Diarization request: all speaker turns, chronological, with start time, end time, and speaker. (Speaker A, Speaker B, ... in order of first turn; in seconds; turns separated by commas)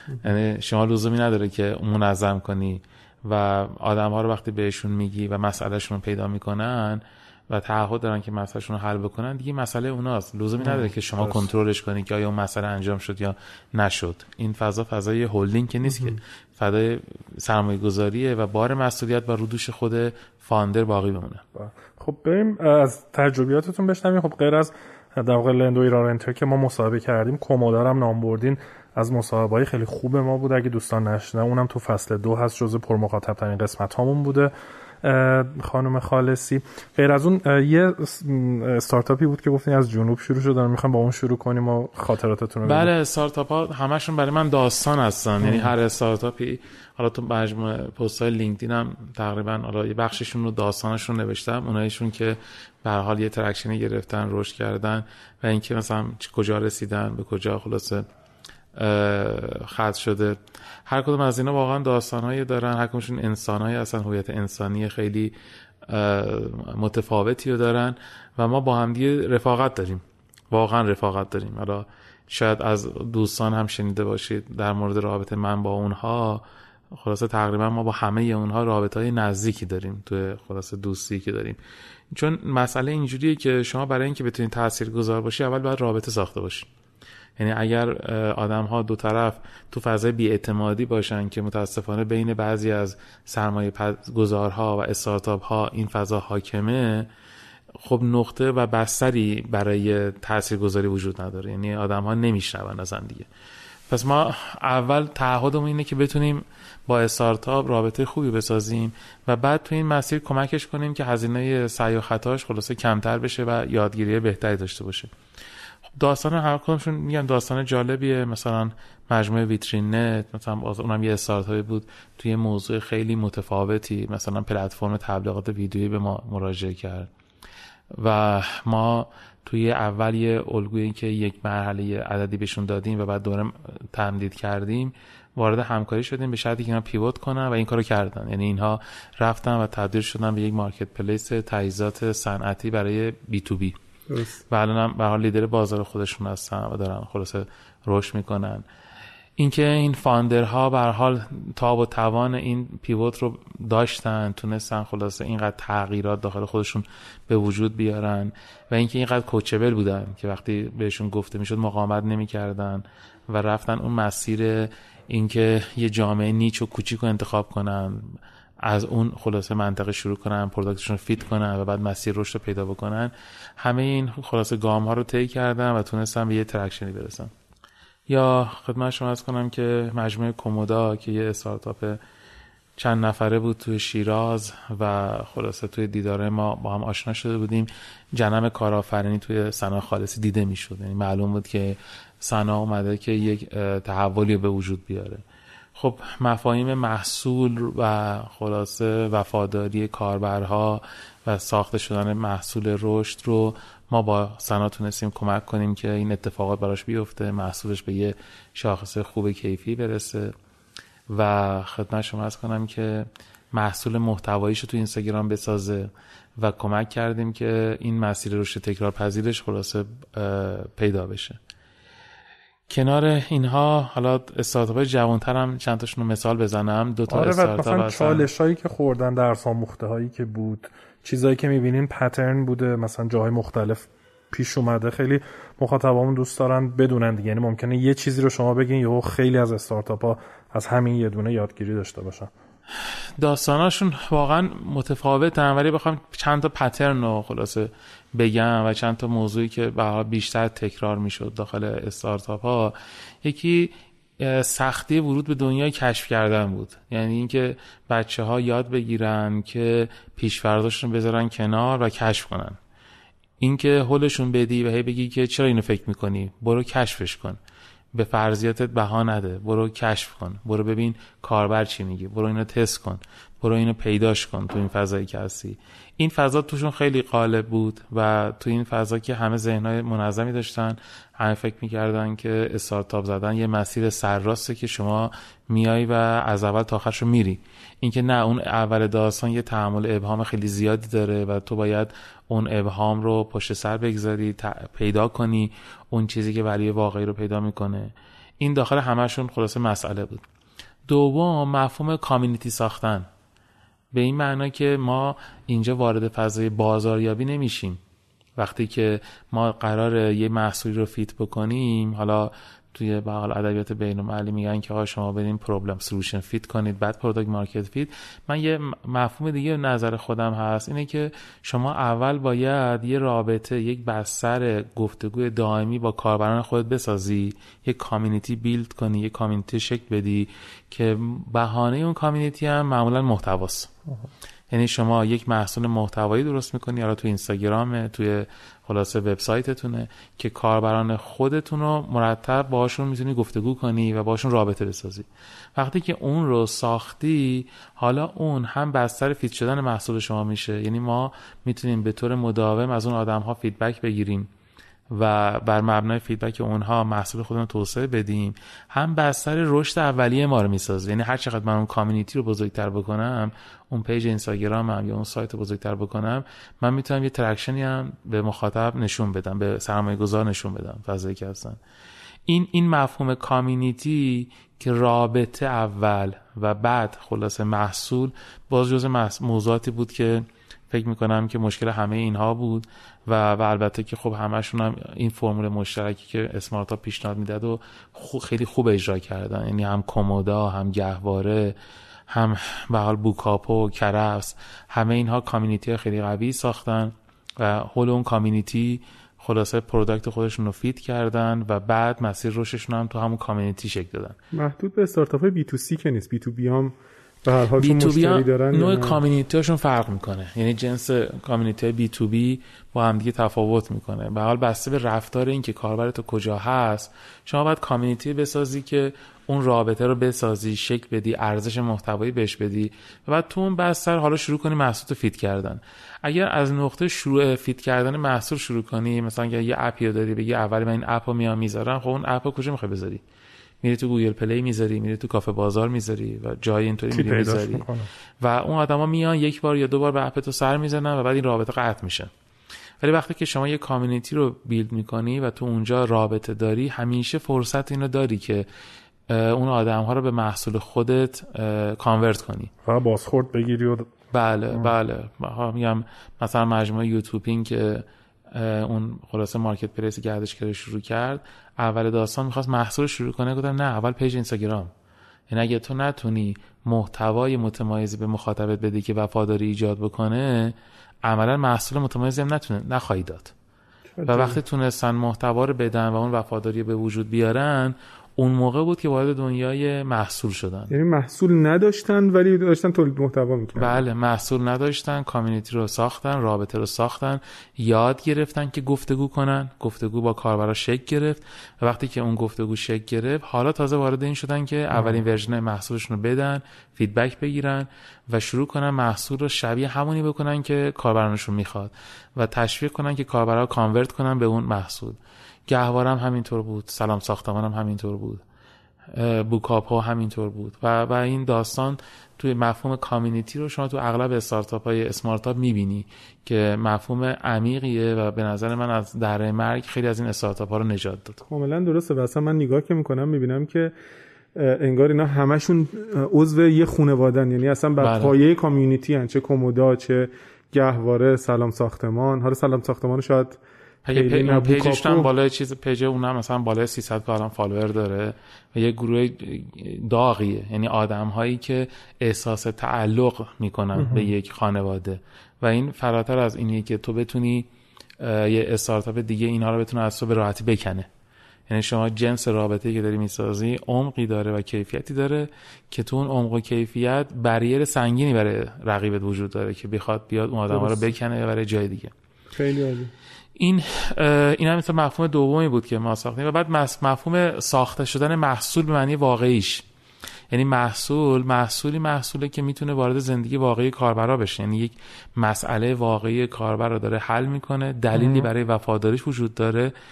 Speaker A: 0.2-21.4, Speaker B: 10.6-11.5, Speaker B: 21.5-42.9, Speaker A: 42.6-58.0, Speaker A: 58.7-65.3, Speaker A: 65.9-81.6, Speaker A: 82.1-86.7, Speaker A: 87.4-97.1, Speaker A: 97.8-103.3, Speaker A: 103.9-115.1, Speaker A: 116.0-127.1, Speaker A: 127.9-143.8, Speaker C: 144.1-144.4, Speaker A: 144.5-148.6, Speaker A: 149.4-177.3, Speaker A: 178.1-182.0, Speaker A: 182.8-195.2, Speaker A: 195.8-210.3, Speaker A: 211.1-221.4, Speaker A: 222.7-228.2, Speaker B: 227.1-242.3, Speaker A: 243.2-262.6, Speaker A: 263.4-267.4, Speaker A: 267.9-300.2, Speaker A: 300.9-303.1, Speaker A: 303.9-307.8, Speaker A: 308.4-333.7, Speaker A: 334.5-354.3, Speaker A: 354.9-371.6, Speaker A: 372.3-391.6, Speaker A: 392.1-404.2, Speaker C: 404.3-409.0, Speaker A: 407.6-433.0, Speaker A: 433.6-437.6, Speaker B: 436.9-437.9, Speaker A: 438.2-442.1, Speaker A: 442.8-448.4, Speaker A: 449.1-452.5, Speaker B: 452.6-453.9, Speaker A: 454.1-464.7, Speaker A: 465.3-473.3, Speaker C: 474.0-474.4, Speaker A: 474.1-480.7, Speaker C: 480.7-483.8, Speaker A: 483.6-508.2, Speaker A: 508.9-521.2, Speaker C: 521.3-523.7, Speaker C: 524.3-535.1, Speaker A: 527.8-528.1, Speaker A: 533.8-547.5, Speaker A: 548.0-550.9, Speaker A: 551.5-561.9, Speaker C: 560.5-560.9, Speaker C: 562.3-562.9, Speaker A: 563.4-569.6, Speaker A: 570.3-579.7